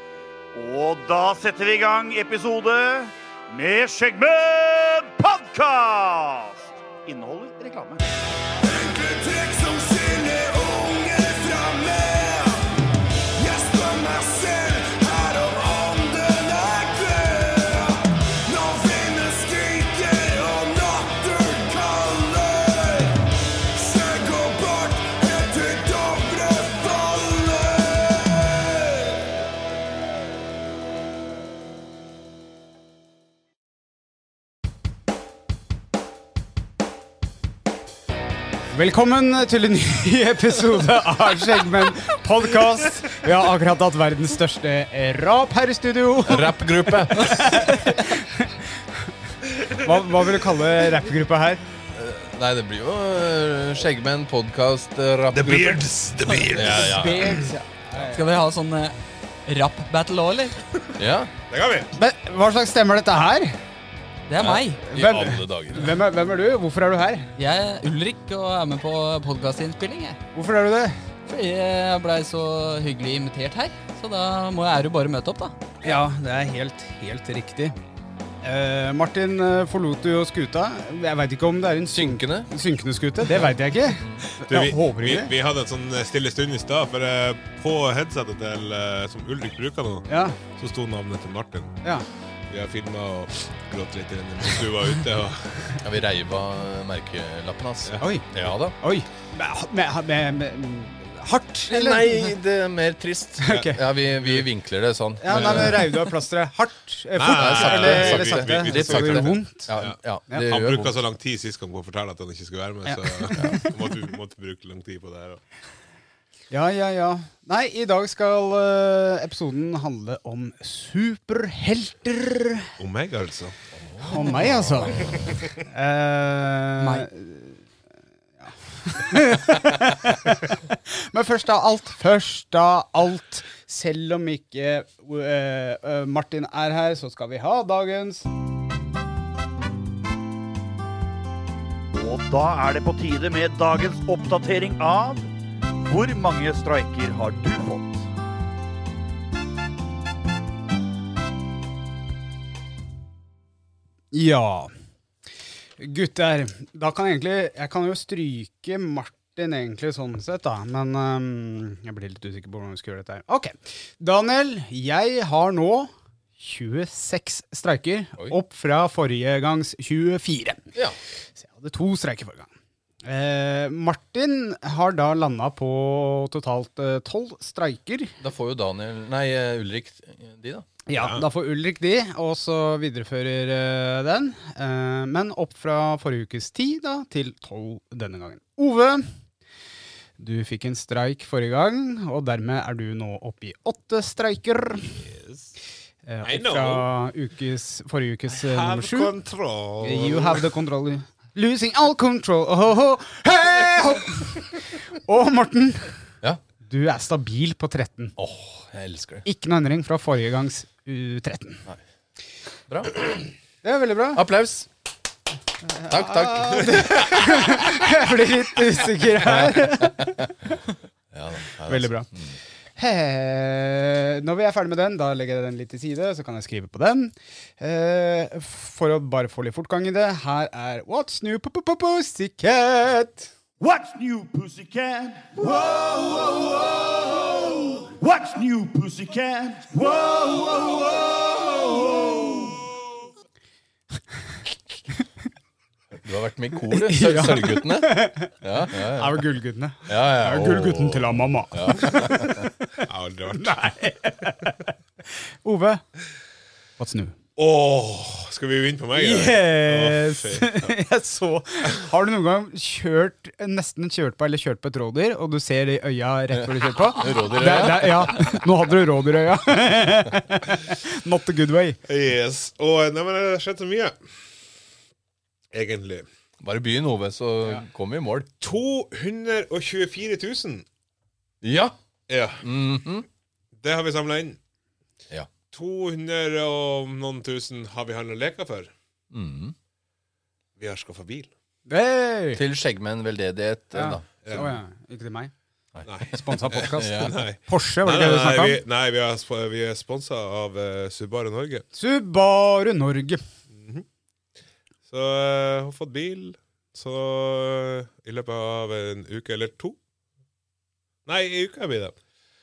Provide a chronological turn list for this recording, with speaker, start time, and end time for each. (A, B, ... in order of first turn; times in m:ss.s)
0:00.5-0:08.0 A
0:08.6-0:12.6 B
0:13.4-0:23.1 B
0:23.7-0:29.2 B
0:38.7-0:48.8 C
0:46.2-0:47.6 D
0:49.7-0:51.6 C
0:51.9-0:55.8 D
0:55.3-0:57.3 E
0:56.5-0:57.6 D
0:56.6-0:58.2 C
0:58.1-1:00.6 F
1:01.0-1:01.3 D
1:01.5-1:01.9 E
1:02.0-1:03.6 C
1:04.3-1:04.8 F
1:04.4-1:06.0 D
1:04.9-1:07.3 C
1:07.4-1:10.2 F
1:10.3-1:11.0 C
1:11.2-1:15.6 F
1:15.8-1:17.8 C
1:18.4-1:25.3 C
1:21.9-1:22.5 D
1:23.9-1:24.2 D
1:24.4-1:31.8 E
1:30.1-1:30.4 C
1:32.5-1:35.8 E
1:35.8-1:38.8 D
1:38.8-1:42.3 C
1:41.7-1:46.0 D
1:43.4-1:43.8 C
1:43.5-1:44.5 E
1:45.2-1:49.7 C
1:45.3-1:45.7 E
1:47.2-1:55.4 E
1:47.2-1:50.9 D
1:52.8-1:53.8 C
1:53.3-1:53.6 D
1:56.5-2:02.7 C
2:02.8-2:03.6 E
2:03.7-2:05.4 D
2:04.1-2:07.6 C
2:04.2-2:05.5 E
2:06.8-2:07.1 F
2:08.4-2:18.3 C
2:21.9-2:25.3 A
2:25.8-2:28.0 A
2:34.1-2:34.7 C
2:35.8-2:50.6 C
2:50.7-2:51.0 D
2:51.4-2:52.5 C
2:53.0-2:58.1 C
2:58.2-3:00.7 D
3:00.9-3:09.1 C
3:00.9-3:01.2 E
3:10.2-3:14.9 C
3:14.9-3:15.5 E
3:16.0-3:19.1 C
3:16.2-3:16.9 E
3:18.3-3:20.4 E
3:19.8-3:25.9 C
3:26.6-3:28.1 C
3:28.2-3:29.2 D
3:29.2-3:31.6 C
3:32.7-3:33.1 D
3:33.6-3:34.2 C
3:34.1-3:34.7 D
3:35.6-3:40.6 C
3:35.9-3:37.5 D
3:39.2-3:40.3 D
3:41.1-3:42.3 D
3:41.6-3:42.1 C
3:42.8-3:53.3 C
3:53.6-4:02.6 A
4:05.9-4:09.2 D
4:06.7-4:14.7 C
4:09.9-4:12.4 D
4:12.8-4:13.7 E
4:15.4-4:15.8 C
4:16.8-4:17.2 C
4:17.4-4:20.8 E
4:19.0-4:31.8 C
4:26.3-4:28.2 D
4:31.9-4:33.9 E
4:35.5-4:36.0 E
4:36.4-4:38.3 D
4:38.4-4:40.6 E
4:41.4-4:41.8 D
4:42.1-4:42.5 E
4:42.4-4:43.1 D
4:43.6-4:44.4 E
4:45.5-4:48.7 E
4:49.1-4:49.5 D
4:50.6-4:51.3 E
4:51.7-4:52.4 C
4:52.3-4:54.5 D
4:53.7-4:55.3 C
4:54.2-4:54.5 E
4:55.8-5:01.6 E
4:56.1-4:58.6 C
4:56.7-4:57.2 D
5:01.7-5:03.2 C
5:03.5-5:03.8 E
5:04.9-5:09.8 E
5:11.0-5:12.0 E